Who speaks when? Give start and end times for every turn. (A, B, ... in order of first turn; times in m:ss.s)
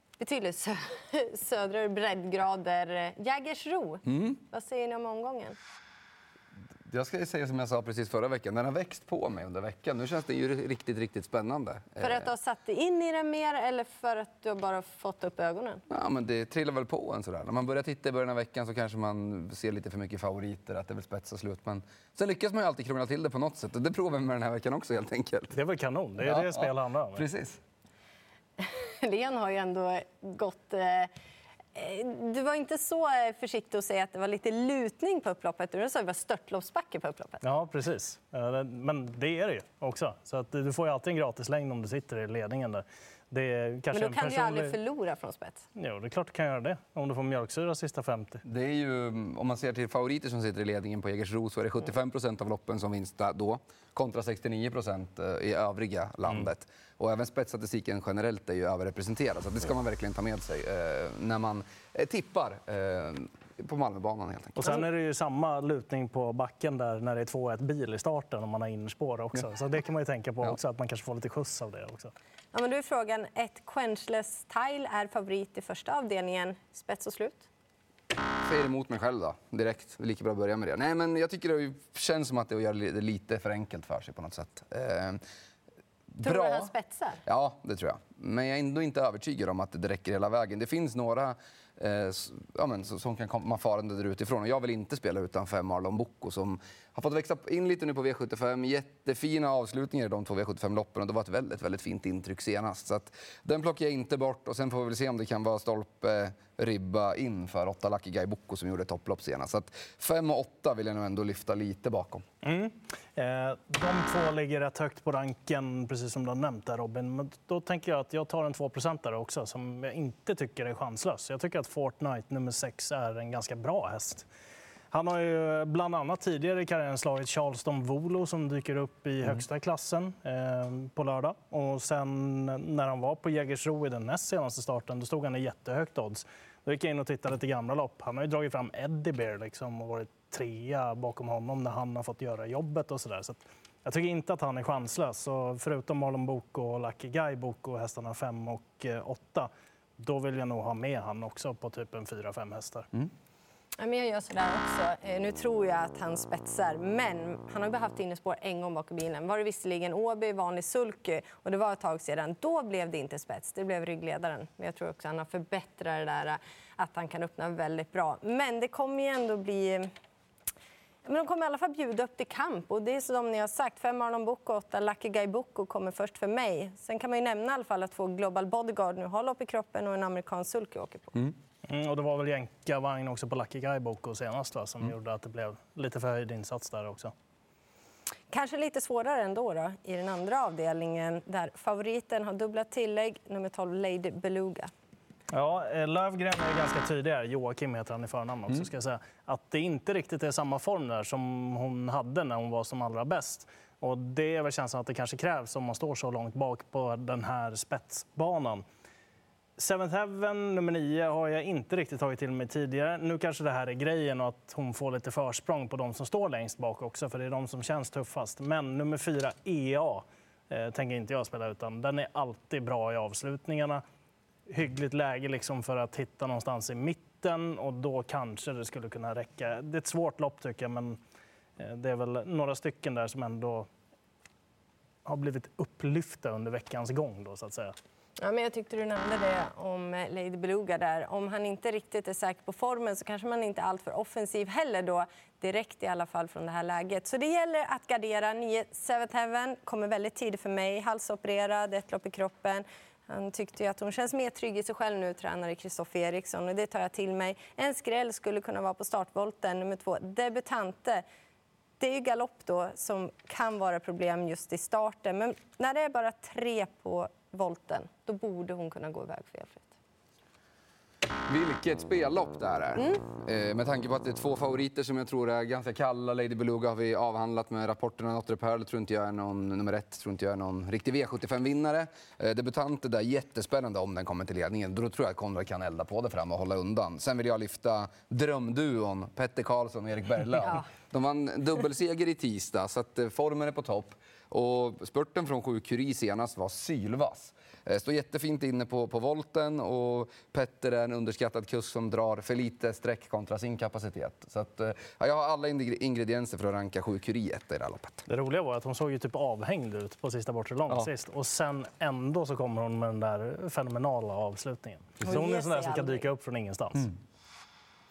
0:00.2-0:05.6 A
0:04.0-0:04.4 B
0:06.9-0:12.3 B
0:12.0-0:15.8 A
0:15.9-0:25.6 B
0:25.5-0:27.2 C
0:26.2-0:27.6 B
0:28.6-0:31.1 A
0:31.7-0:37.4 A
0:37.4-0:44.8 C
0:43.9-0:45.6 A
0:45.8-0:48.4 C
0:48.4-1:04.7 B
1:04.6-1:12.1 C
1:12.5-1:17.5 A
1:18.4-1:25.2 B
1:26.2-1:26.7 B
1:26.2-1:27.2 A
1:27.2-1:52.2 B
1:52.4-2:04.3 C
2:04.9-2:32.9 C
2:33.8-2:49.9 A
2:51.0-3:01.2 A
3:01.7-3:07.1 C
3:08.3-3:14.7 A
3:15.3-3:28.6 C
3:29.6-3:43.8 C
3:44.5-3:51.0 C
3:51.6-3:53.7 C
3:55.0-3:57.7 C
3:58.2-4:21.0 A
4:21.8-4:29.7 A
4:31.3-5:08.0 B
4:32.8-4:33.0 A
5:08.1-5:16.9 C
5:15.0-5:16.1 A